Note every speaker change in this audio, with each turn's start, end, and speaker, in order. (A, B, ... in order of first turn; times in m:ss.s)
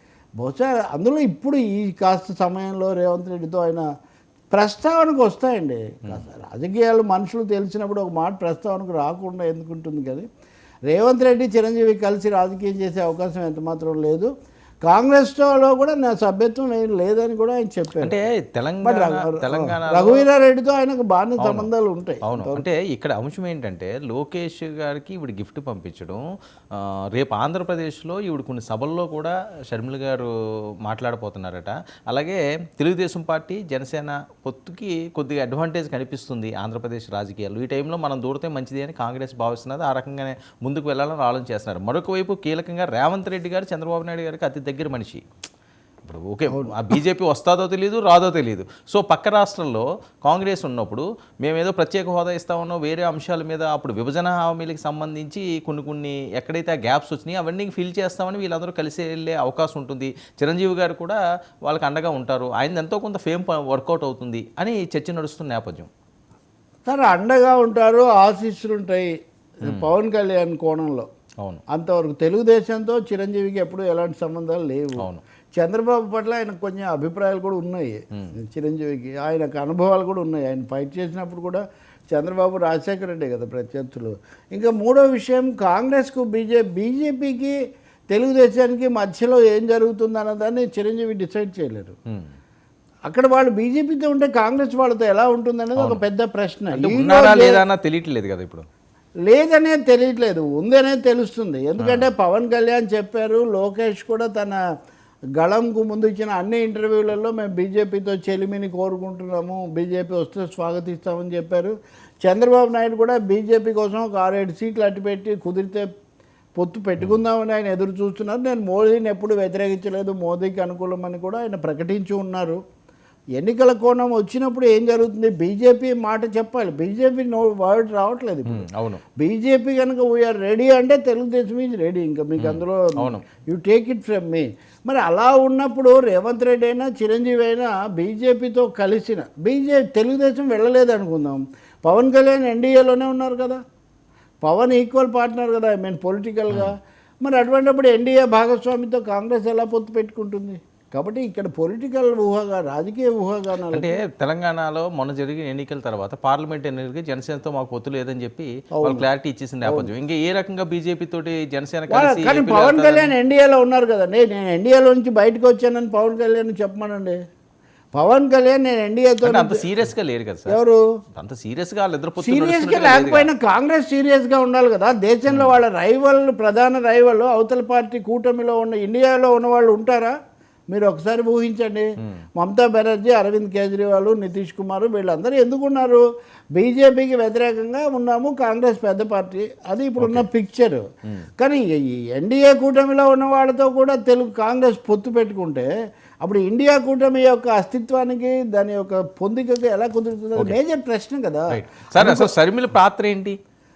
0:00.4-0:03.8 A
0:04.5-0:10.3 A
0:10.9-0:14.3 A
0:14.9-0:18.2 A
0:18.0-0:20.3 B
0:18.8-0:22.6 A
0:21.4-0:21.7 B
0:22.3-0:26.2 B
0:26.7-0:30.3 B
0:30.8-0:45.2 B
0:46.0-1:05.9 B
0:46.5-0:46.8 A
1:06.9-1:09.1 A
1:09.6-1:11.1 A
1:11.7-1:15.0 A
1:15.6-1:27.6 A
1:28.1-1:32.0 A
1:33.1-1:37.6 A
1:35.8-1:36.0 B
1:36.7-1:38.7 B
1:39.3-1:44.6 A
1:41.8-1:42.1 B
1:45.4-1:55.9 A
1:56.6-2:02.6 A
2:03.4-2:23.6 A
2:08.5-2:09.0 B
2:12.4-2:13.2 B
2:24.4-2:33.9 A
2:33.7-2:43.1 B
2:38.8-2:39.0 A
2:41.9-2:47.2 A
2:47.9-2:49.7 A
2:49.2-2:50.6 B
2:50.5-2:50.8 A
2:51.2-2:53.3 B
2:52.2-3:00.2 A
3:00.7-3:10.8 A
3:10.0-3:10.3 B
3:11.4-3:15.7 A
3:16.2-3:22.3 A
3:21.5-3:23.4 B